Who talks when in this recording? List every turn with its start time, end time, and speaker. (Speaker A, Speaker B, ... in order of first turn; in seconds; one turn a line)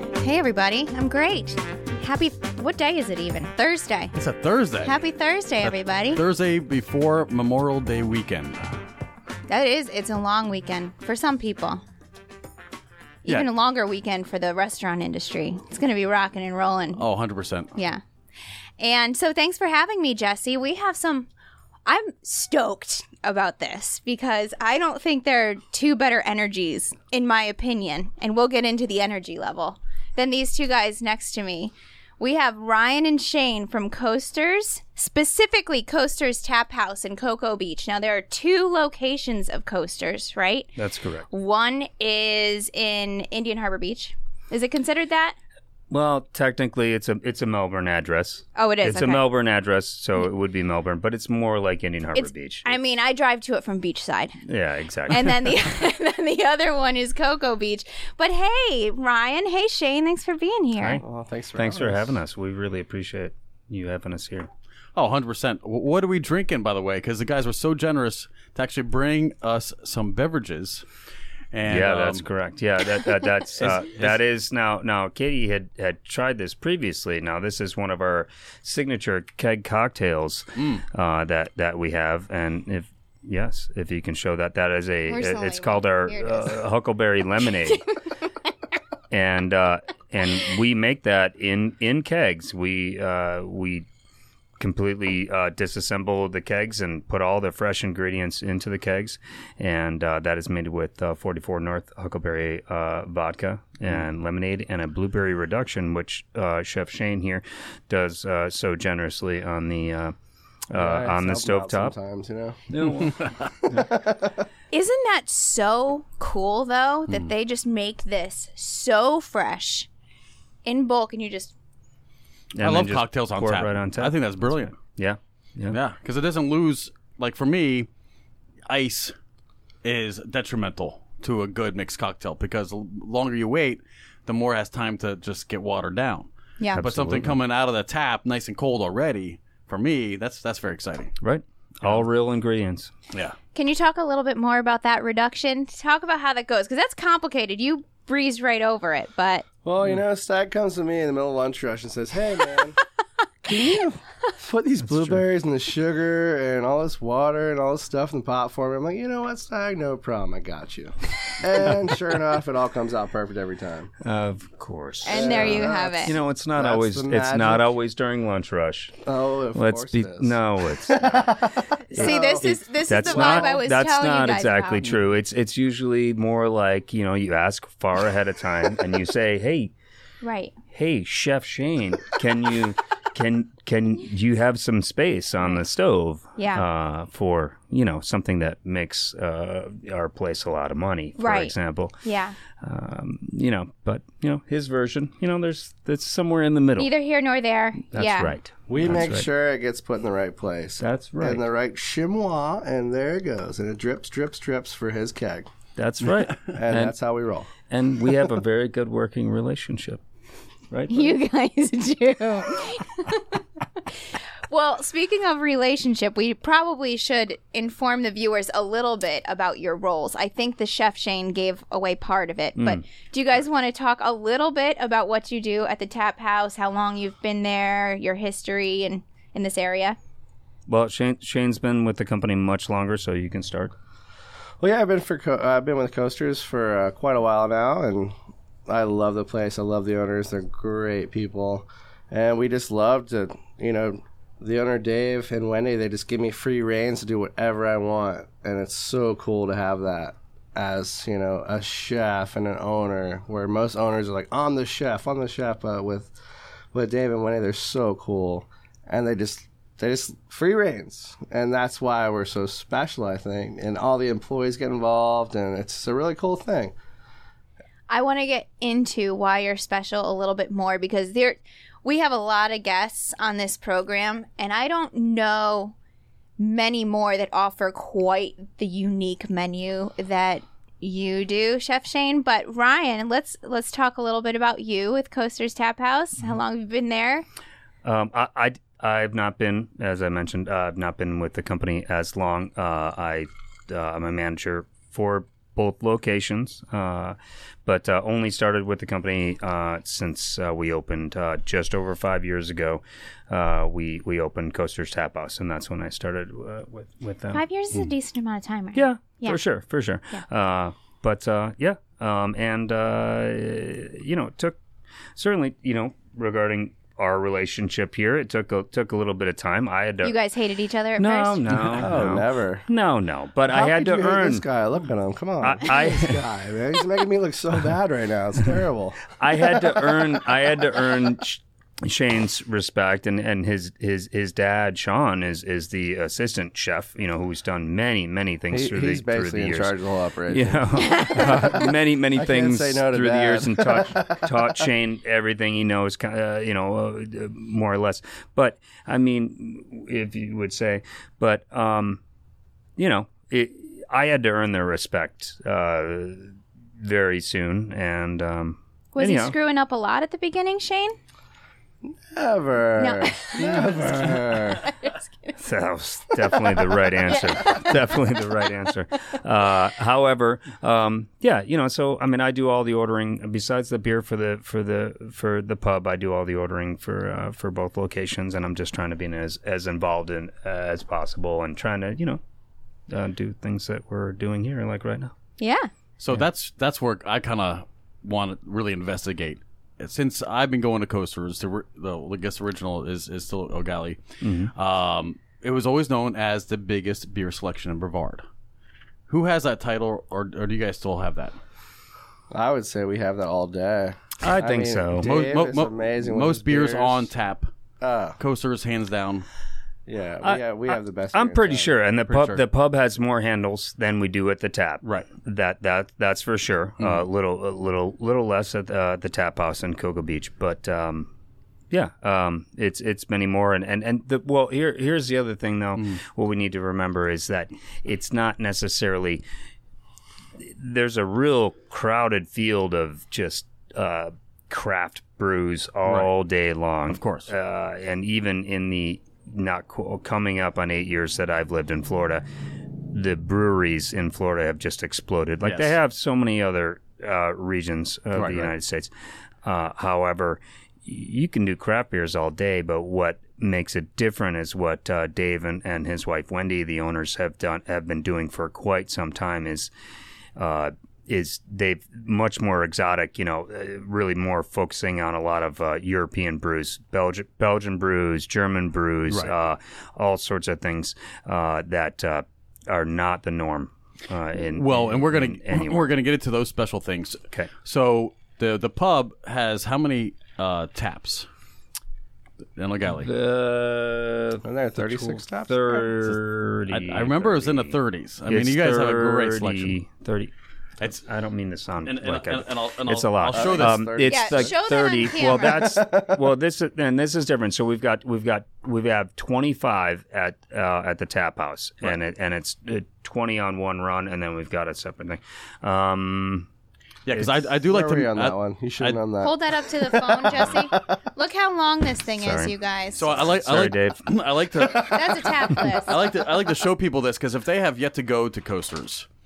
Speaker A: 0.2-4.1
Speaker B: 4.1-5.0
Speaker A: 4.8-6.2
Speaker B: 5.6-8.8
Speaker A: 9.5-11.8
Speaker A: 13.2-17.0
Speaker B: 17.0-17.8
Speaker A: 17.8-18.0
Speaker A: 18.8-21.3
Speaker A: 21.9-40.7
Speaker C: 40.8-41.3
Speaker A: 41.3-45.4
Speaker C: 45.9-52.7
Speaker A: 48.5-49.3
Speaker A: 52.1-54.4
Speaker C: 54.4-55.5
Speaker A: 55.1-61.0
Speaker C: 60.8-61.0
Speaker D: 61.0-62.1
Speaker C: 61.5-64.5
Speaker B: 64.9-70.9
Speaker B: 71.5-72.2
Speaker C: 71.7-87.8
Speaker B: 73.6-74.2
Speaker B: 80.5-80.8
Speaker A: 85.1-86.6
Speaker A: 87.6-87.9
Speaker C: 89.1-93.9
Speaker C: 94.6-110.1
Speaker C: 110.7-111.9
Speaker D: 110.7-112.6
Speaker C: 112.7-113.9
Speaker B: 113.0-113.5
Speaker D: 113.7-114.4
Speaker A: 114.7-119.9
Speaker A: 120.6-121.5
Speaker C: 122.5-124.2
Speaker B: 122.6-124.8
Speaker C: 124.7-125.8
Speaker B: 125.7-127.9
Speaker B: 128.7-129.1
Speaker B: 129.8-141.1
Speaker C: 136.7-137.4
Speaker C: 141.2-142.9
Speaker B: 143.1-143.4
Speaker A: 143.6-149.4
Speaker D: 149.6-152.8
Speaker D: 153.4-163.9
Speaker C: 154.8-155.2
Speaker C: 164.0-169.0
Speaker A: 165.0-166.2
Speaker D: 165.1-167.7
Speaker D: 169.0-173.6
Speaker C: 169.5-171.4
Speaker A: 171.9-174.9
Speaker C: 171.9-179.7
Speaker A: 180.2-180.6
Speaker C: 180.7-192.0
Speaker A: 186.4-186.6
Speaker A: 191.2-192.4
Speaker C: 192.6-196.9
Speaker A: 196.8-198.4
Speaker C: 197.9-199.3
Speaker D: 198.7-205.5
Speaker C: 200.8-201.4
Speaker C: 205.8-206.9
Speaker D: 206.5-207.5
Speaker C: 207.7-210.0
Speaker C: 210.7-211.2
Speaker A: 210.9-230.0
Speaker C: 222.6-222.8
Speaker C: 230.7-233.7
Speaker D: 234.6-238.1
Speaker D: 238.7-256.1
Speaker D: 256.7-266.7
Speaker A: 267.9-275.8
Speaker A: 276.4-287.2
Speaker C: 287.8-307.4
Speaker A: 307.3-309.4
Speaker C: 308.7-314.6
Speaker C: 315.2-320.2
Speaker A: 320.0-321.5
Speaker C: 321.0-324.4
Speaker D: 321.7-322.7
Speaker D: 323.5-330.0
Speaker C: 325.4-326.2
Speaker C: 329.2-339.8
Speaker D: 338.5-344.3
Speaker C: 340.3-352.0
Speaker C: 352.8-359.4
Speaker A: 358.9-361.0
Speaker D: 362.1-364.7
Speaker A: 362.8-365.4
Speaker C: 365.4-382.2
Speaker A: 366.5-368.5
Speaker C: 382.9-385.1
Speaker A: 385.4-385.7
Speaker B: 386.0-398.2
Speaker C: 394.2-394.5
Speaker B: 399.1-401.4
Speaker D: 402.3-407.1
Speaker C: 404.2-405.1
Speaker B: 404.9-407.5
Speaker D: 407.8-408.2
Speaker B: 408.2-409.3
Speaker D: 409.9-411.7
Speaker C: 410.2-421.1
Speaker B: 412.0-412.4
Speaker B: 414.8-415.1
Speaker C: 421.7-429.2
Speaker C: 430.4-442.2
Speaker B: 435.9-436.1
Speaker B: 436.9-437.3
Speaker C: 442.8-448.9
Speaker B: 445.4-445.7
Speaker B: 448.1-448.5
Speaker C: 449.4-459.7
Speaker C: 460.4-475.8
Speaker B: 474.5-481.3
Speaker B: 482.6-483.1
Speaker C: 482.9-490.3
Speaker D: 484.4-485.9
Speaker B: 486.7-489.8
Speaker C: 491.0-506.5
Speaker B: 491.9-493.9
Speaker D: 493.3-494.6
Speaker A: 494.0-495.8
Speaker D: 495.2-496.2
Speaker B: 507.1-509.0
Speaker D: 507.6-510.8
Speaker A: 509.2-513.3
Speaker C: 512.2-512.5
Speaker B: 512.9-519.1
Speaker C: 513.2-514.1
Speaker A: 514.8-516.3